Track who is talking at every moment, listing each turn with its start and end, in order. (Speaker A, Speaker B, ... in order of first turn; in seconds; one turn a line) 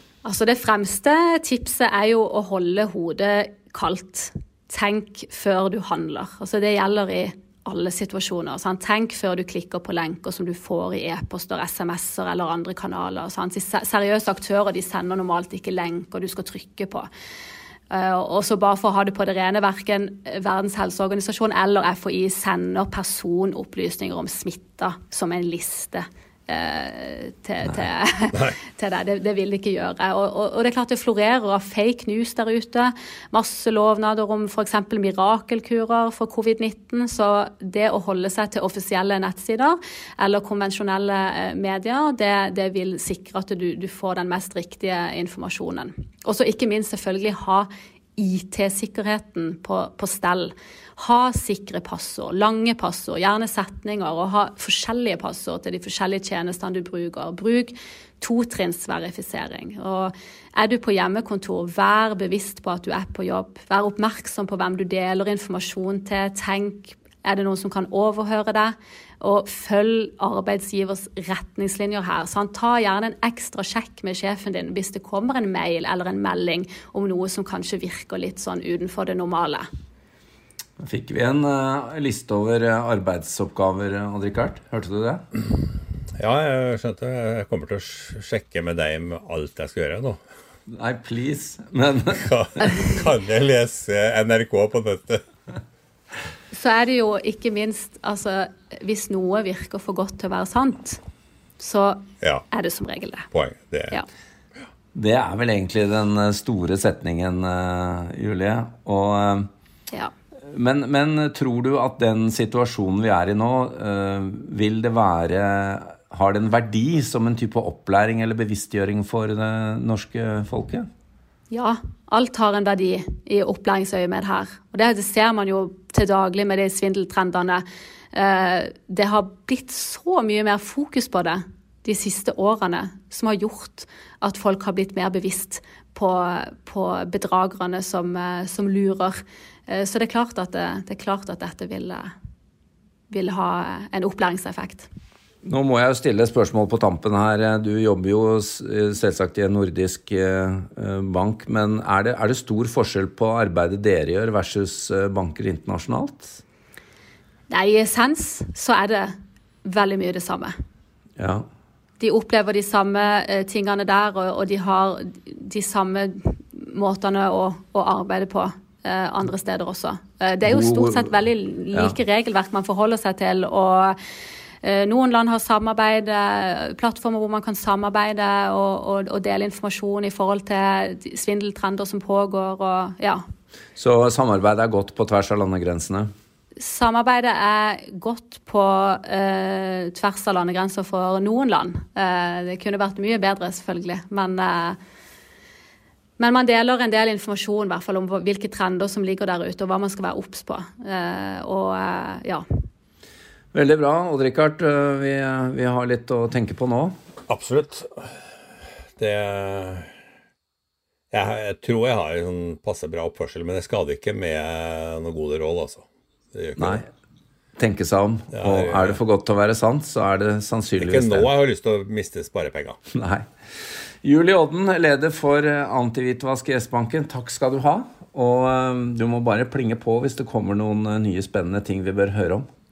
Speaker A: 0.2-17.1
Speaker A: 17.9-79.7
Speaker B: 28.3-28.6
Speaker C: 80.8-85.2
Speaker B: 86.2-90.2
Speaker C: 90.7-92.7
Speaker B: 92.1-95.2
Speaker A: 96.5-101.0
Speaker A: 101.6-103.3
Speaker B: 102.2-102.5
Speaker B: 103.3-104.0
Speaker C: 105.0-109.5
Speaker C: 110.4-120.9
Speaker A: 121.5-142.1
Speaker A: 143.1-144.9
Speaker C: 145.5-156.4
Speaker A: 157.5-160.5
Speaker C: 161.2-161.5
Speaker A: 162.0-174.0
Speaker C: 170.4-171.1
Speaker A: 174.6-183.2
Speaker C: 183.8-186.1
Speaker A: 186.6-194.8
Speaker A: 196.2-202.4
Speaker C: 203.5-206.9
Speaker B: 207.3-208.1
Speaker B: 209.0-209.9
Speaker B: 211.1-216.8
Speaker C: 216.6-216.9
Speaker C: 217.6-221.3
Speaker B: 218.3-219.0
Speaker B: 220.8-222.8
Speaker C: 222.9-223.3
Speaker C: 224.0-232.4